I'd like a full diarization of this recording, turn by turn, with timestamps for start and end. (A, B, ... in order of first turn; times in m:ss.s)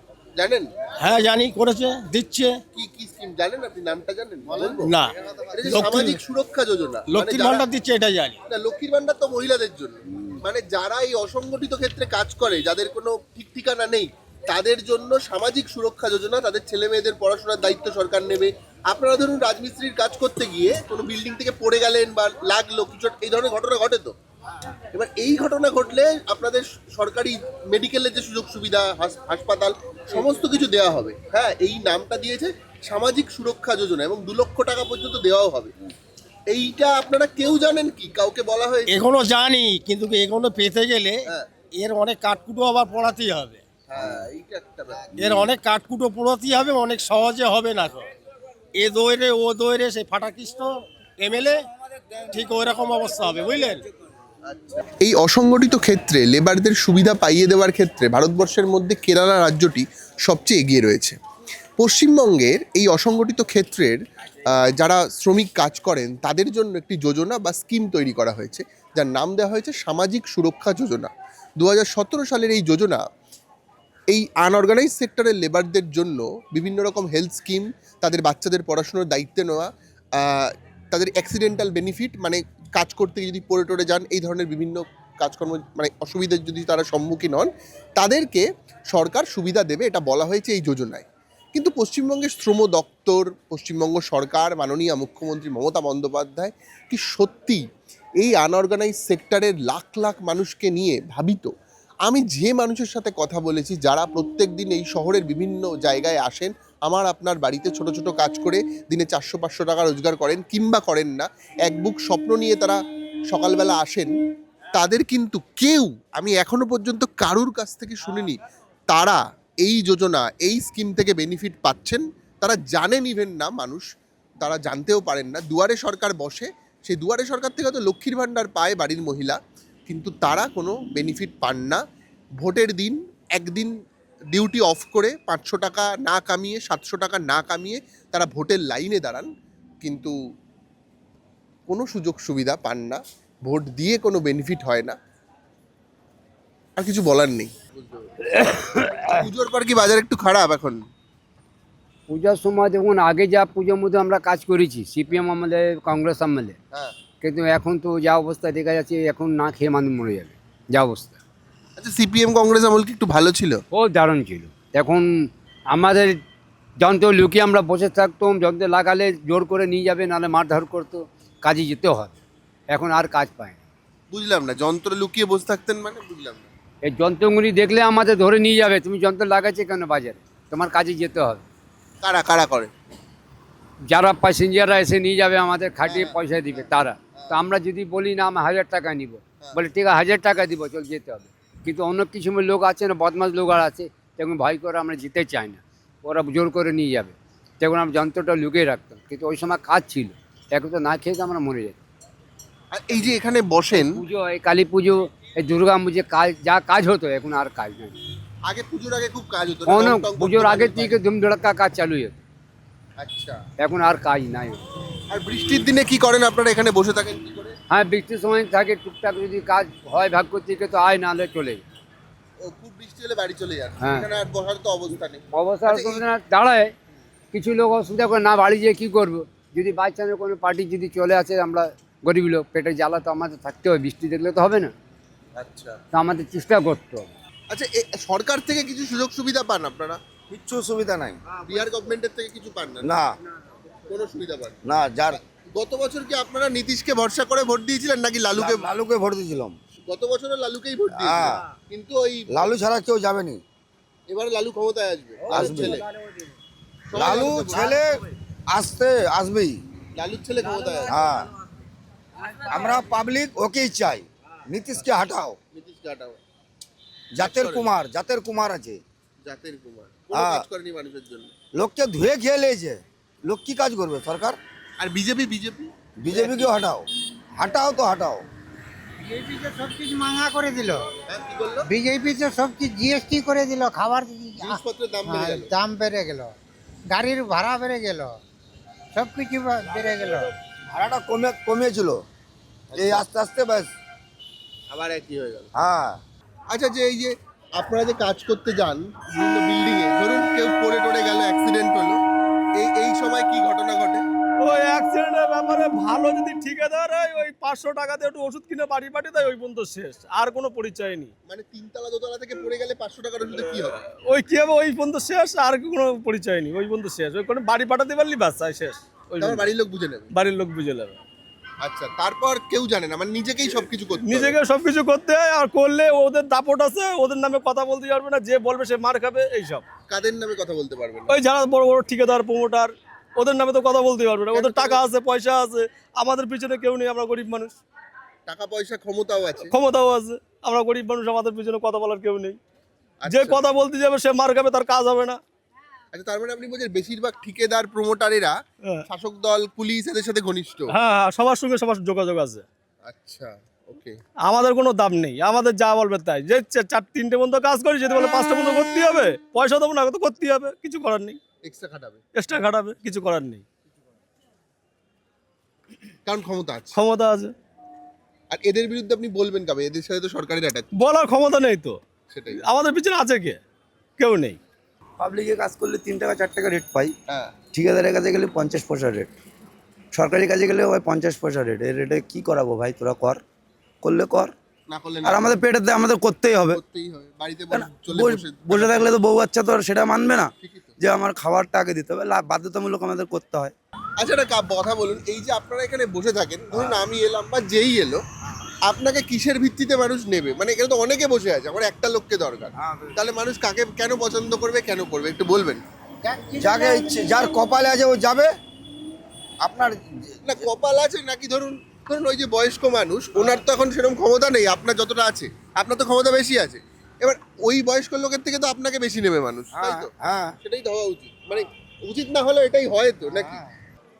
0:00.4-0:00.7 A
0:01.0-0:02.6 B
0:02.7-0:04.9 A
0:04.8-0:06.2 B
0:05.5-0:07.6 A
0:07.1-0:08.4 B
0:08.5-0:24.1 A
0:24.9-0:35.7 A
0:36.5-0:39.0 A
0:38.9-0:43.6 B
0:43.9-0:45.2 A
0:45.2-0:48.1 B
0:48.8-0:51.6 B
0:52.3-0:53.8 B
0:54.5-1:01.2 A
1:01.8-1:13.0 A
1:14.1-1:37.6 A
1:38.2-1:41.5 A
1:42.0-1:52.8 A
1:53.3-1:54.1 A
1:54.7-2:03.8 A
2:04.4-2:11.8 A
2:12.4-2:13.7 A
2:14.3-2:19.3 A
2:19.8-2:20.2 A
2:21.7-2:25.0 A
2:26.8-2:30.8 A
2:32.1-2:36.6 C
2:37.2-2:41.2 C
2:41.8-2:43.6 A
2:43.7-2:45.1 C
2:45.7-2:46.2 C
2:46.8-2:52.1 C
2:52.7-2:53.6 C
2:54.1-2:56.5 A
2:56.8-3:01.4 C
3:02.0-3:02.7 A
3:03.9-3:21.8 C
3:05.8-3:07.4 A
3:22.7-3:24.0 A
3:23.7-3:28.0 C
3:28.5-3:31.0 A
3:29.7-3:32.2 C
3:33.0-3:33.4 A
3:33.6-3:34.6 C
3:35.1-3:37.6 A
3:37.7-3:41.6 C
3:42.4-3:46.0 A
3:43.8-3:44.1 C
3:45.3-3:46.7 C
3:47.3-3:54.7 C
3:55.4-3:55.8 A
3:55.9-3:57.1 C
3:57.5-4:00.0 A
4:00.3-4:01.2 D
4:01.5-4:02.9 A
4:02.8-4:03.1 D
4:03.9-4:04.6 A
4:04.7-4:05.2 D
4:05.1-4:08.7 A
4:08.4-4:09.6 D
4:09.9-4:12.3 A
4:11.0-4:11.4 D
4:12.3-4:13.4 D
4:14.1-4:15.9 A
4:15.3-4:15.8 D
4:16.9-4:18.0 A
4:16.9-4:18.0 D
4:18.5-4:19.5 D
4:20.0-4:20.9 A
4:20.9-4:21.3 D
4:22.5-4:25.4 D
4:25.5-4:26.2 A
4:27.1-4:28.8 D
4:27.2-4:27.7 A
4:29.2-4:31.3 A
4:30.1-4:30.4 D
4:31.6-4:34.4 D
4:34.8-4:36.5 A
4:36.0-4:36.8 D
4:37.4-4:38.2 D
4:39.0-4:40.8 E
4:41.1-4:41.7 A
4:41.7-4:46.3 E
4:44.4-4:45.5 A
4:46.9-4:48.2 E
4:48.9-4:50.3 E
4:50.7-4:52.0 D
4:52.7-4:53.0 A
4:52.8-4:53.7 D
4:54.7-4:55.5 A
4:55.6-4:56.0 D
4:56.5-5:02.0 A
5:02.6-5:04.0 A
5:04.4-5:11.1 F
5:11.3-5:13.8 A
5:13.8-5:19.5 F
5:19.2-5:20.1 A
5:20.1-5:21.0 F
5:21.6-5:24.4 A
5:24.0-5:29.6 F
5:29.9-5:31.2 A
5:31.1-5:37.6 F
5:34.3-5:34.8 A
5:38.3-5:39.5 A
5:39.4-5:42.4 F
5:43.0-5:43.4 A
5:43.1-5:45.2 F
5:45.9-5:48.4 A
5:48.9-5:50.7 A
5:50.7-5:52.4 F
5:52.8-5:54.0 A
5:54.3-6:01.2 F
6:01.4-6:02.0 A
6:02.2-6:03.4 F
6:06.1-6:06.8 A
6:06.8-6:07.3 F
6:08.3-6:10.7 A
6:10.7-6:11.8 F
6:12.1-6:12.4 A
6:12.4-6:13.4 F
6:14.0-6:14.4 F
6:15.0-6:16.9 G
6:17.1-6:17.4 A
6:17.5-6:19.1 G
6:19.9-6:23.2 G
6:23.8-6:24.3 G
6:24.7-6:25.4 A
6:25.0-6:26.6 G
6:26.5-6:28.9 A
6:27.5-6:33.5 G
6:30.4-6:30.8 A
6:34.0-6:38.0 A
6:38.6-6:45.6 A
6:42.6-6:43.0 D
6:46.0-6:47.3 E
6:46.4-6:48.3 D
6:49.4-6:50.4 D
6:50.2-6:59.9 A
6:59.5-7:00.4 D
7:00.4-7:03.4 A